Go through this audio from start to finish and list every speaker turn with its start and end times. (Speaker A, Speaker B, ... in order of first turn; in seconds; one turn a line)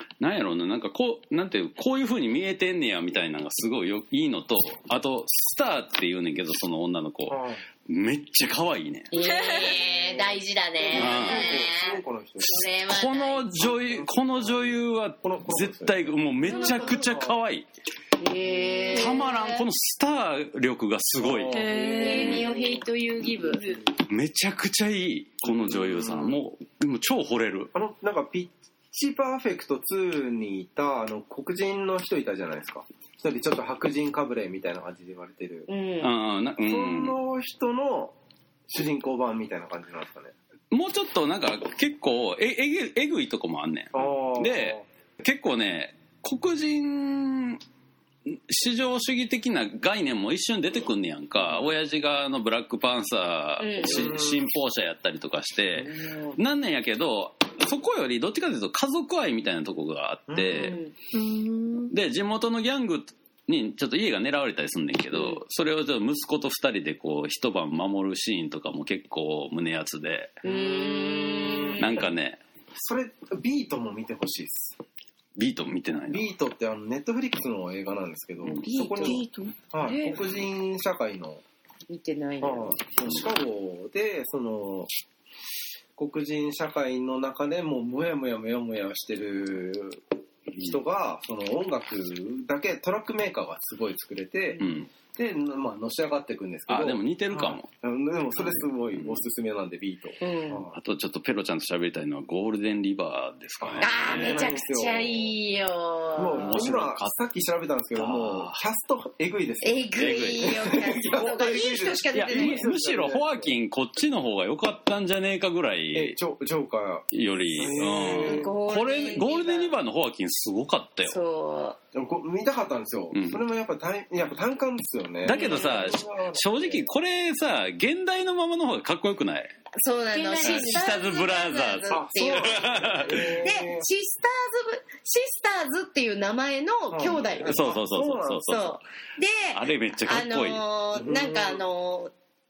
Speaker A: 0.2-9.1
Speaker B: 7.3-7.6
Speaker C: 9.1-13.5
Speaker D: 9.2-9.8
Speaker B: 9.8-12.6
Speaker A: 10.9-11.6
Speaker D: 11.0-11.5
Speaker A: 12.4-17.7
Speaker B: 13.6-17.4
Speaker C: 18.2-19.3
Speaker D: 18.9-19.6
Speaker A: 18.9-21.6
Speaker B: 21.2-22.6
Speaker D: 21.5-22.8
Speaker C: 21.9-23.6
Speaker D: 23.6-23.8
Speaker A: 24.0-27.7
Speaker B: 25.4-26.4
Speaker B: 27.7-35.7
Speaker C: 35.7-36.1
Speaker A: 36.0-37.2
Speaker B: 36.6-38.1
Speaker B: 38.7-40.3
Speaker A: 40.7-47.6
Speaker B: 43.9-44.8
Speaker A: 48.3-60.8
Speaker C: 53.6-54.1
Speaker B: 53.8-54.4
Speaker B: 55.8-56.3
Speaker B: 60.3-60.7
Speaker C: 60.5-60.9
Speaker D: 61.1-61.9
Speaker A: 61.9-70.4
Speaker C: 65.1-65.4
Speaker C: 70.4-72.1
Speaker B: 70.4-71.9
Speaker A: 71.8-72.4
Speaker B: 72.8-74.8
Speaker A: 75.4-76.3
Speaker B: 76.1-79.2
Speaker C: 78.6-79.2
Speaker D: 79.0-79.6
Speaker B: 79.7-81.4
Speaker C: 79.8-80.2
Speaker C: 81.9-82.8
Speaker B: 82.4-84.9
Speaker B: 86.0-90.0
Speaker B: 90.6-100.8
Speaker A: 94.6-94.9
Speaker A: 96.7-97.7
Speaker A: 98.4-99.2
Speaker C: 100.2-100.7
Speaker A: 100.8-104.5
Speaker B: 103.6-105.3
Speaker C: 103.8-106.6
Speaker B: 106.2-113.5
Speaker A: 106.4-107.2
Speaker A: 108.0-108.6
Speaker C: 109.6-112.7
Speaker A: 110.0-110.6
Speaker A: 112.2-116.2
Speaker B: 115.9-118.5
Speaker A: 117.1-121.2
Speaker C: 118.2-119.8
Speaker C: 121.1-121.8
Speaker B: 121.9-126.9
Speaker A: 123.1-123.4
Speaker A: 125.2-129.5
Speaker C: 125.3-126.0
Speaker C: 129.8-137.6
Speaker D: 130.1-130.9
Speaker A: 130.4-133.4
Speaker B: 131.9-133.9
Speaker B: 136.9-138.5
Speaker A: 137.4-138.8
Speaker C: 138.4-142.1
Speaker A: 139.5-140.6
Speaker B: 140.9-141.6